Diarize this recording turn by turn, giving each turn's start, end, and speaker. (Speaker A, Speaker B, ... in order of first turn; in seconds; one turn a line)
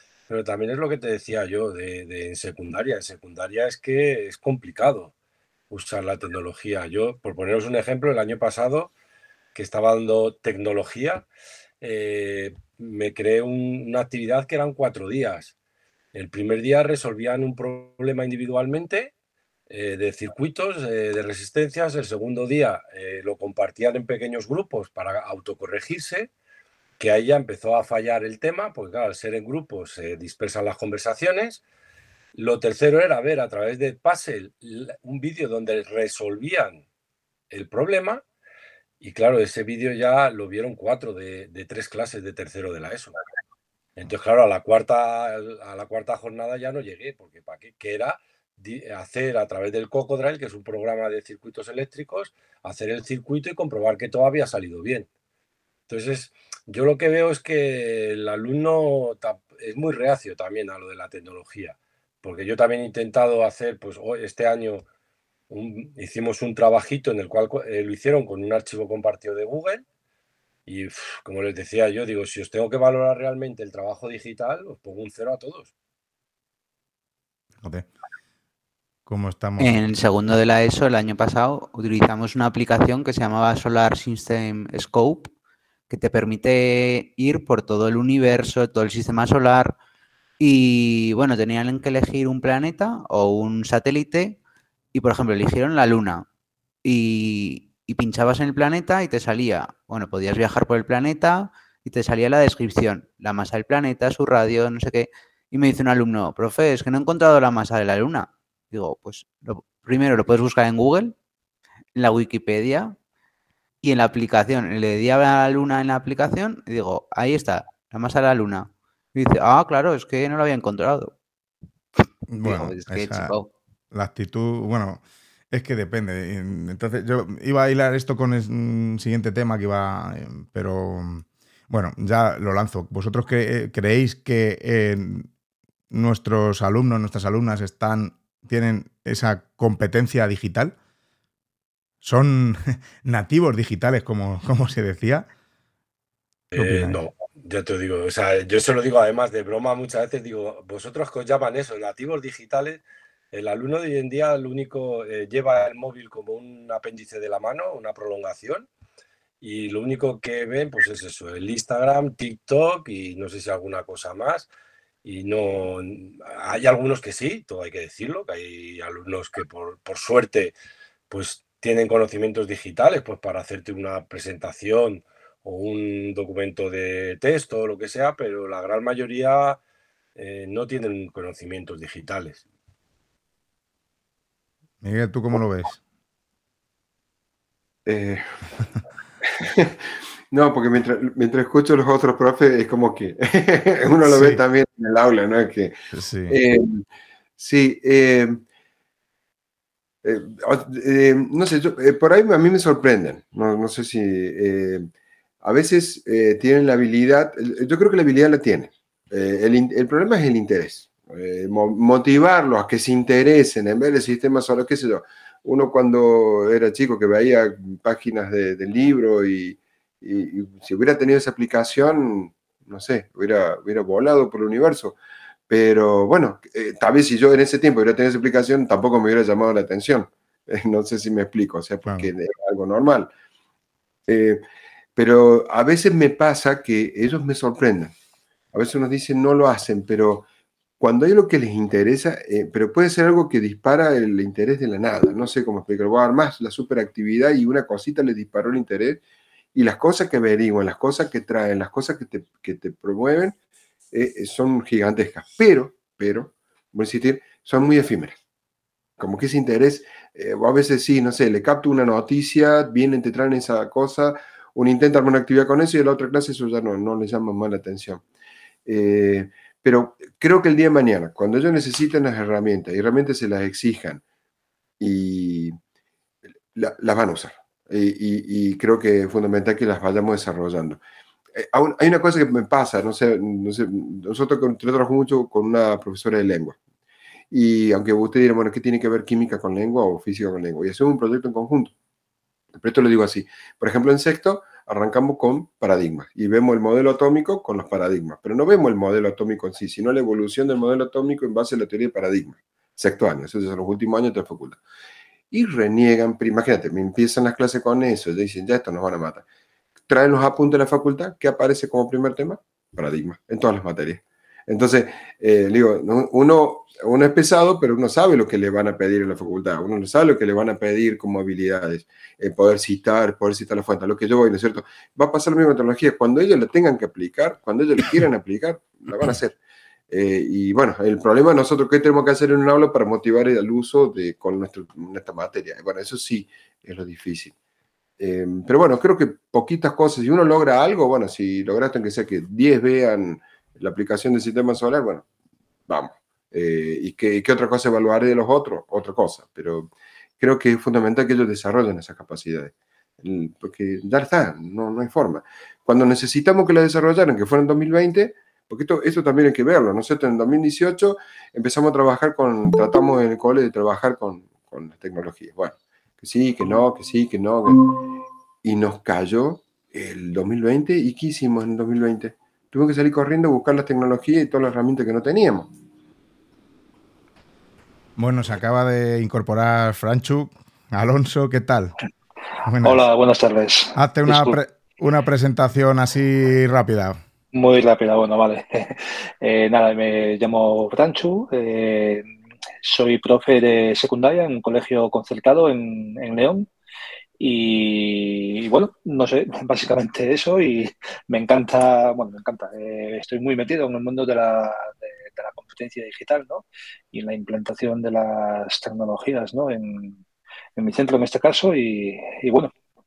Speaker A: 0.3-5.1
Speaker A: 5.7-8.9
Speaker A: 9.5-11.2
Speaker A: 11.8-15.5
Speaker A: 16.1-19.1
Speaker A: 19.7-26.3
Speaker A: 27.0-31.6
Speaker A: 32.3-36.8
Speaker A: 37.5-38.2
Speaker A: 39.0-43.1
Speaker A: 44.0-55.1
Speaker A: 55.9-64.8
Speaker A: 65.5-69.8
Speaker A: 70.7-75.7
Speaker B: 79.1-79.8
Speaker C: 79.6-85.3
Speaker C: 85.9-89.8
Speaker C: 90.4-94.4
Speaker C: 94.9-96.2
Speaker C: 96.8-111.1
Speaker C: 111.9-113.0
Speaker C: 113.8-121.1
Speaker B: 122.3-123.3
Speaker C: 122.4-123.5
Speaker B: 123.9-125.0
Speaker B: 125.5-135.3
Speaker B: 135.9-140.7
Speaker B: 142.0-145.3
Speaker A: 146.5-158.7
Speaker B: 146.6-147.0
Speaker A: 159.4-164.5
Speaker A: 165.0-170.5
Speaker A: 171.1-179.6
Speaker A: 180.2-182.4
Speaker B: 184.8-185.8
Speaker D: 187.8-188.2
Speaker D: 189.2-195.8
Speaker B: 194.0-194.4
Speaker B: 195.9-196.3
Speaker D: 196.3-196.8
Speaker D: 197.4-198.4
Speaker D: 200.0-204.9
Speaker D: 205.4-225.0
Speaker D: 225.5-233.1
Speaker B: 231.8-232.1
Speaker D: 234.1-234.4
Speaker D: 234.9-237.9
Speaker D: 238.5-240.3
Speaker D: 240.8-249.0
Speaker D: 249.5-253.3
Speaker D: 253.9-258.2
Speaker D: 259.0-268.0
Speaker D: 268.6-274.0
Speaker D: 274.8-275.5
Speaker D: 276.5-280.8
Speaker D: 281.3-286.6
Speaker D: 287.3-291.7
Speaker D: 292.5-304.6
Speaker D: 305.3-309.2
Speaker D: 309.9-329.4
Speaker D: 329.9-337.3
Speaker D: 338.0-345.1
Speaker D: 345.7-367.7
Speaker D: 368.4-375.5
Speaker B: 378.0-381.8
Speaker B: 382.4-382.9
Speaker E: 382.6-384.4
Speaker B: 383.7-387.0
Speaker E: 387.3-392.1
Speaker E: 392.6-396.5
Speaker E: 397.2-410.0
Speaker E: 410.6-412.5